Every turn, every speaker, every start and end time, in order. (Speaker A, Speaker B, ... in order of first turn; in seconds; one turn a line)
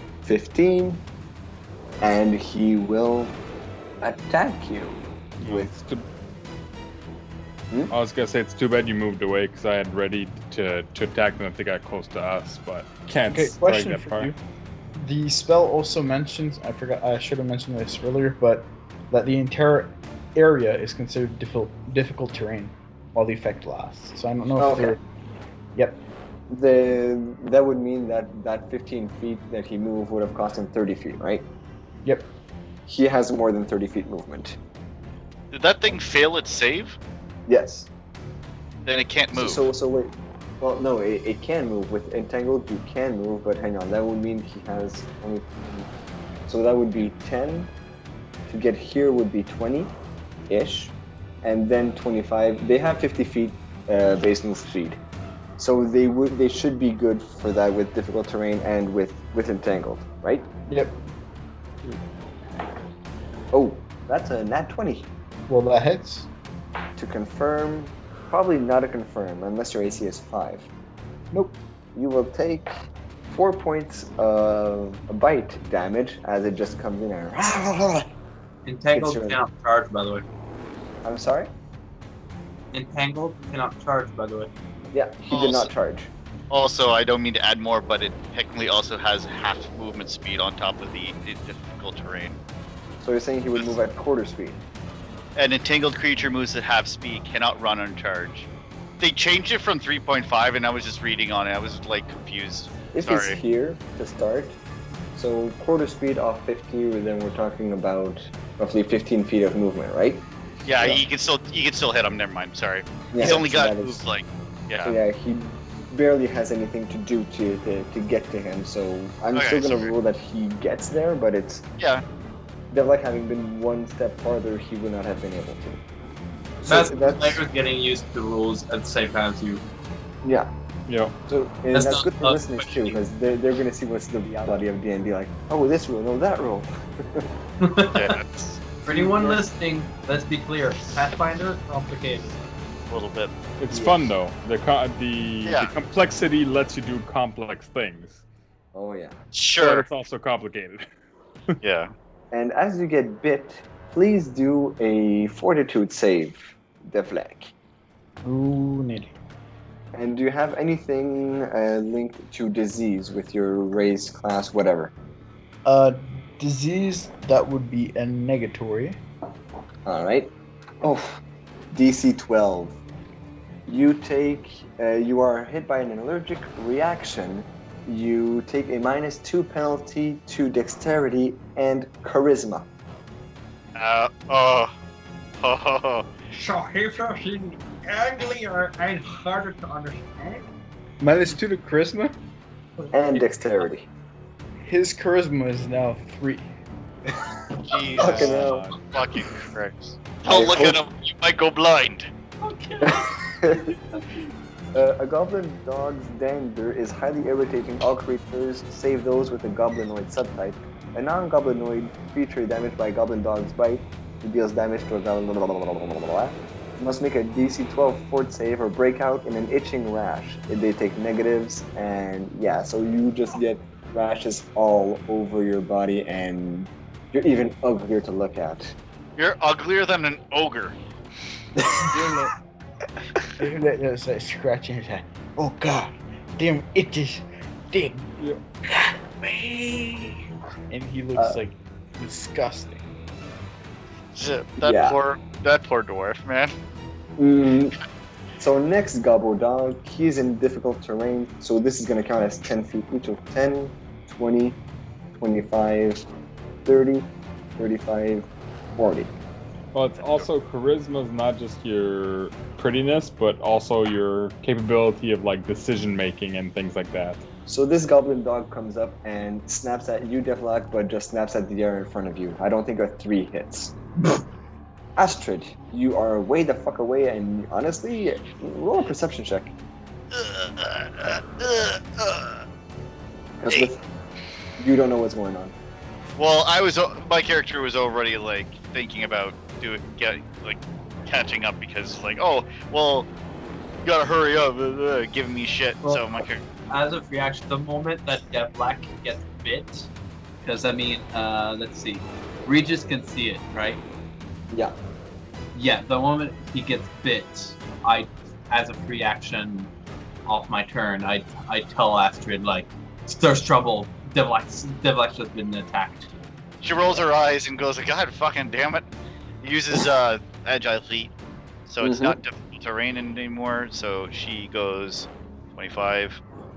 Speaker A: 0.2-1.0
Speaker A: 2.0-3.4
Speaker A: 4.0-5.7
Speaker B: 5.4-6.0
Speaker B: 7.9-14.3
Speaker C: 13.3-14.4
Speaker C: 15.0-25.0
Speaker A: 24.6-25.0
Speaker C: 25.8-26.0
Speaker A: 26.5-31.5
Speaker C: 32.0-32.3
Speaker A: 32.9-34.6
Speaker D: 35.5-37.0
Speaker A: 37.5-37.9
Speaker D: 38.9-39.7
Speaker A: 39.3-45.9
Speaker A: 46.5-47.7
Speaker A: 48.5-50.0
Speaker A: 50.5-55.0
Speaker A: 55.6-60.5
Speaker C: 60.7-61.0
Speaker A: 63.5-65.1
Speaker C: 65.5-66.3
Speaker A: 67.0-70.7
Speaker A: 71.9-72.8
Speaker A: 73.3-78.1
Speaker E: 78.7-80.2
Speaker A: 78.9-79.4
Speaker A: 81.0-81.5
Speaker E: 82.7-84.5
Speaker A: 84.9-86.1
Speaker D: 85.3-85.7
Speaker D: 86.5-92.4
Speaker A: 93.0-94.6
Speaker D: 95.4-98.5
Speaker D: 99.0-103.4
Speaker A: 102.9-104.6
Speaker A: 105.1-110.3
Speaker D: 110.6-115.0
Speaker A: 113.1-114.0
Speaker A: 114.8-121.6
Speaker D: 119.3-119.9
Speaker A: 122.7-125.8
Speaker A: 126.6-127.4
Speaker E: 126.7-129.6
Speaker A: 130.2-130.5
Speaker B: 130.9-131.1
Speaker A: 131.3-137.3
Speaker E: 131.7-133.0
Speaker E: 137.6-138.2
Speaker D: 137.9-138.6
Speaker E: 138.8-142.3
Speaker A: 138.9-139.4
Speaker D: 142.9-143.4
Speaker B: 143.6-148.2
Speaker A: 143.7-144.1
Speaker D: 145.4-145.7
Speaker A: 148.7-149.2
Speaker D: 149.3-149.9
Speaker B: 149.6-150.9
Speaker D: 151.6-151.9
Speaker A: 152.3-157.5
Speaker C: 158.2-159.1
Speaker A: 159.9-164.9
Speaker C: 165.6-169.0
Speaker A: 169.9-172.8
Speaker A: 173.7-182.7
Speaker D: 183.8-184.7
Speaker D: 185.4-186.1
Speaker F: 186.3-190.5
Speaker C: 191.0-192.1
Speaker A: 192.9-193.9
Speaker C: 194.6-196.5
Speaker D: 197.7-202.1
Speaker A: 197.9-198.7
Speaker B: 198.1-198.8
Speaker A: 200.3-200.8
Speaker E: 202.4-204.1
Speaker A: 202.8-203.6
Speaker A: 204.7-228.8
Speaker D: 229.2-230.8
Speaker A: 231.6-231.9
Speaker C: 231.9-232.3
Speaker C: 233.4-242.9
Speaker D: 244.1-246.6
Speaker A: 244.6-245.0
Speaker A: 247.2-247.8
Speaker A: 248.4-254.6
Speaker A: 255.2-256.1
Speaker A: 256.6-258.3
Speaker A: 258.8-259.1
Speaker B: 259.7-267.2
Speaker D: 260.0-260.2
Speaker A: 267.5-273.8
Speaker A: 275.0-279.5
Speaker D: 280.1-282.4
Speaker A: 283.4-283.8
Speaker A: 284.6-285.5
Speaker D: 286.2-293.1
Speaker D: 293.8-296.4
Speaker E: 296.7-299.9
Speaker E: 300.4-303.8
Speaker E: 305.5-309.7
Speaker E: 310.3-316.1
Speaker D: 316.6-318.9
Speaker D: 319.4-321.1
Speaker D: 321.7-326.2
Speaker A: 321.8-322.2